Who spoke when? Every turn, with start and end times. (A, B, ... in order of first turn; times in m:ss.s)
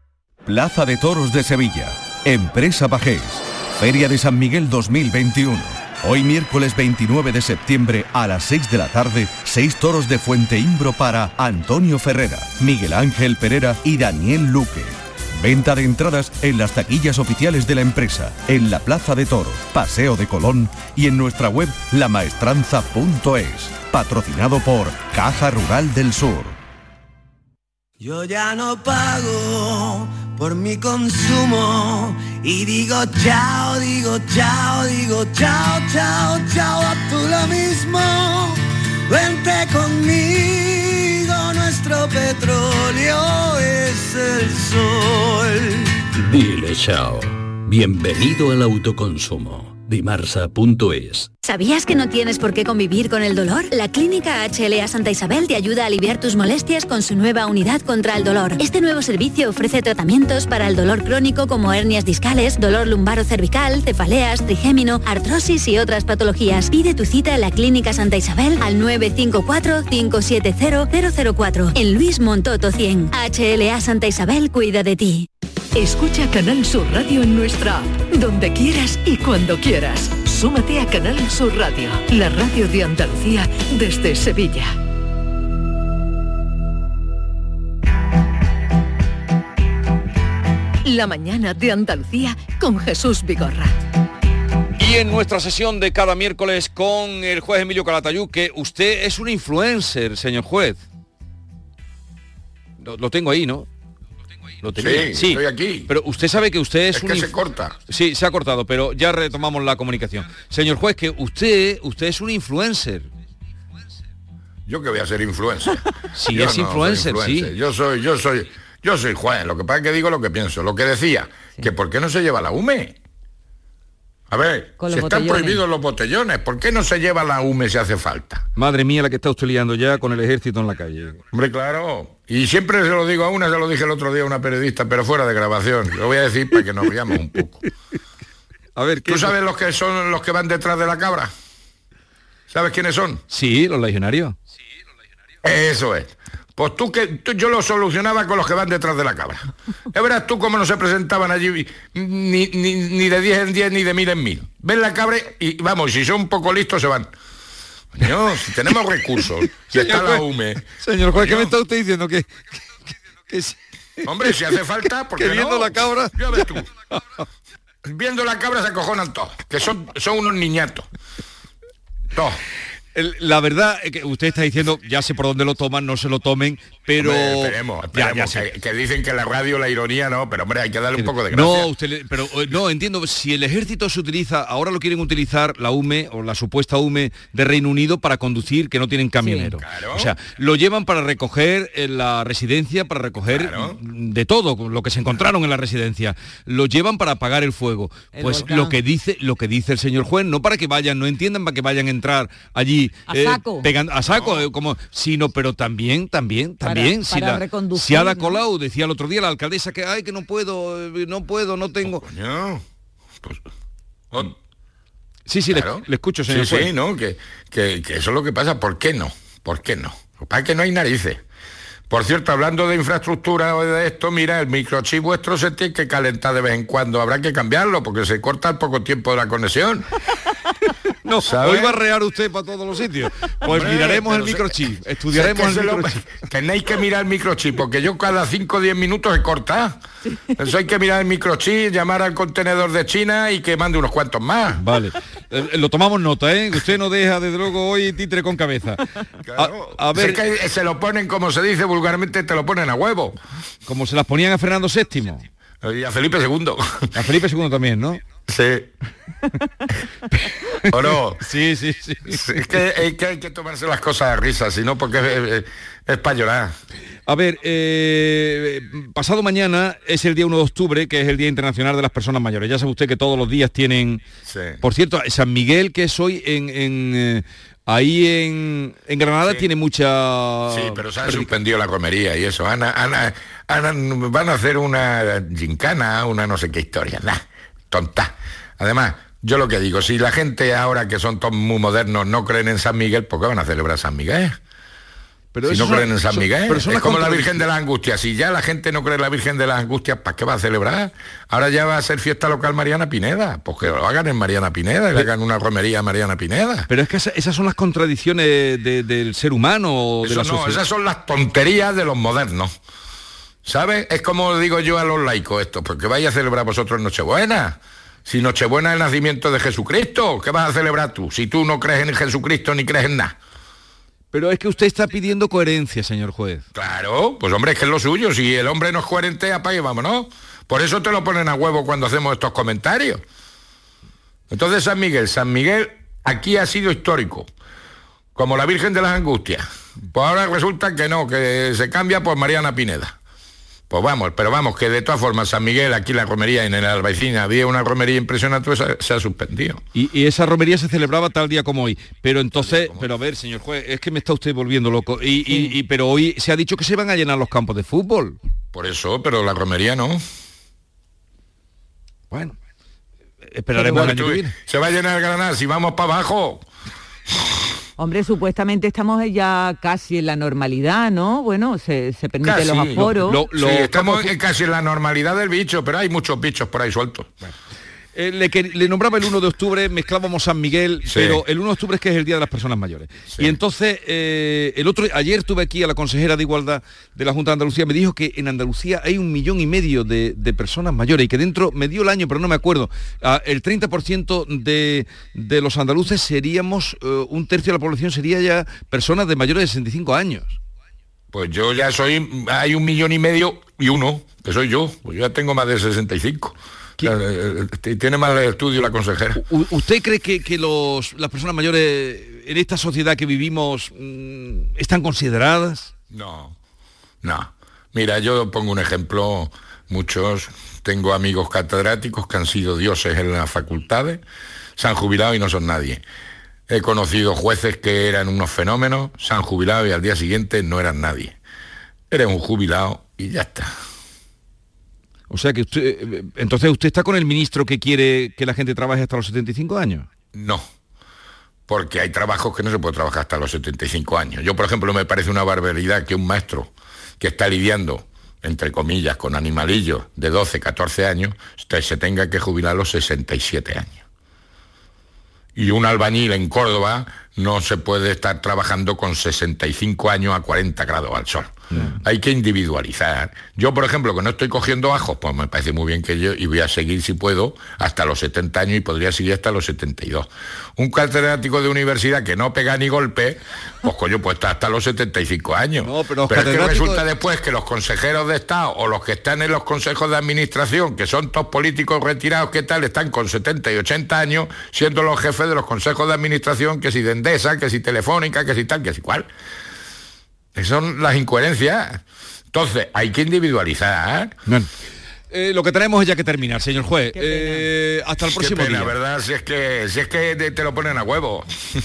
0:00.5-0:26.6 A
0:28.1-0:29.2 B
0:30.4-0:31.9 B
0:32.5-0:33.6 B
0:35.0-0:36.2 B
0:37.1-0:38.0 B
0:39.1-0:40.3 B
0:46.2-0:51.3 C
0:51.4-1:15.3 D
1:15.8-1:24.8 E
1:30.8-1:33.7 E
1:34.8-1:40.8 F
1:42.8-1:43.7 F
1:44.6-1:47.3 F
1:44.8-1:45.9 G
1:46.9-1:47.8 G
1:47.9-1:53.1 F
1:54.7-1:55.8 G
1:56.1-1:57.5 F
1:56.3-2:03.0 G
2:04.3-2:08.5 G
2:04.8-2:05.6 H
2:08.6-2:11.2 F
2:11.3-2:17.6 G
2:18.8-2:19.4 F
2:19.1-2:21.3 G
2:22.5-2:23.2 G
2:23.3-2:24.4 F
2:25.4-2:37.1 G
2:38.0-2:41.5 G
2:39.6-2:40.2 F
2:40.8-2:42.6 F
2:43.3-2:43.6 F
2:44.0-2:46.7 G
2:45.2-2:46.4 F
2:47.8-2:50.9 G
2:53.0-2:58.5 F
2:57.0-3:01.7 G
3:01.0-3:32.0 F
3:09.2-3:09.6 H
3:09.6-3:10.1 G
3:13.3-3:13.8 G
3:18.1-3:18.8 H
3:23.1-3:23.7 H
3:24.1-3:24.4 G
3:26.6-3:28.4 H
3:31.8-3:32.6 G
3:35.3-3:36.7 F
3:35.5-3:41.2 G
3:41.9-3:49.9 G
3:51.0-3:56.1 F
3:51.2-3:51.8 G
3:53.5-3:54.6 G
3:55.1-3:59.8 G
4:00.4-4:04.6 G
4:04.6-4:08.8 F
4:09.3-4:13.2 G
4:09.4-4:10.2 F
4:13.7-4:15.2 F
4:15.6-4:16.9 G
4:17.0-4:18.0 F
4:18.3-4:18.7 G
4:20.7-4:21.2 G
4:21.2-4:22.2 F
4:22.1-4:26.6 G
4:27.1-4:34.0 F
4:34.3-4:34.6 G
4:34.6-4:41.4 F
4:40.5-4:54.4 G
4:55.3-4:57.5 F
4:55.4-5:06.7 G
5:06.7-5:10.6 F
5:10.0-5:12.5 G
5:13.4-5:23.2 G
5:24.1-5:26.4 F
5:26.6-5:33.0 G
5:34.3-5:37.3 G
5:38.2-5:43.0 G
5:43.7-5:49.6 G
5:49.8-5:58.2 F
5:52.4-5:52.9 G
5:55.3-5:55.5 H
5:58.5-6:00.0 G
6:03.3-6:04.3 F
6:03.6-6:04.0 H
6:03.7-6:06.4 G
6:07.8-6:13.3 H
6:12.2-6:12.8 G
6:12.8-6:14.1 F
6:13.3-6:17.1 G
6:18.0-6:40.4 F
6:20.9-6:21.2 G
6:41.1-6:49.2 G
6:49.2-6:55.7 F
6:55.9-6:56.4 G
6:57.0-7:04.0 G
7:04.6-7:05.8 G
7:06.5-7:11.2 G
7:11.9-7:13.5 G
7:15.1-7:19.9 F
7:20.1-7:20.5 G
7:21.5-7:33.8 G
7:35.4-8:09.1 G
7:55.6-7:56.8 F
8:10.4-8:11.8 G
8:12.3-8:14.2 G
8:15.1-8:18.8 F
8:16.9-8:17.5 H
8:18.2-8:21.3 G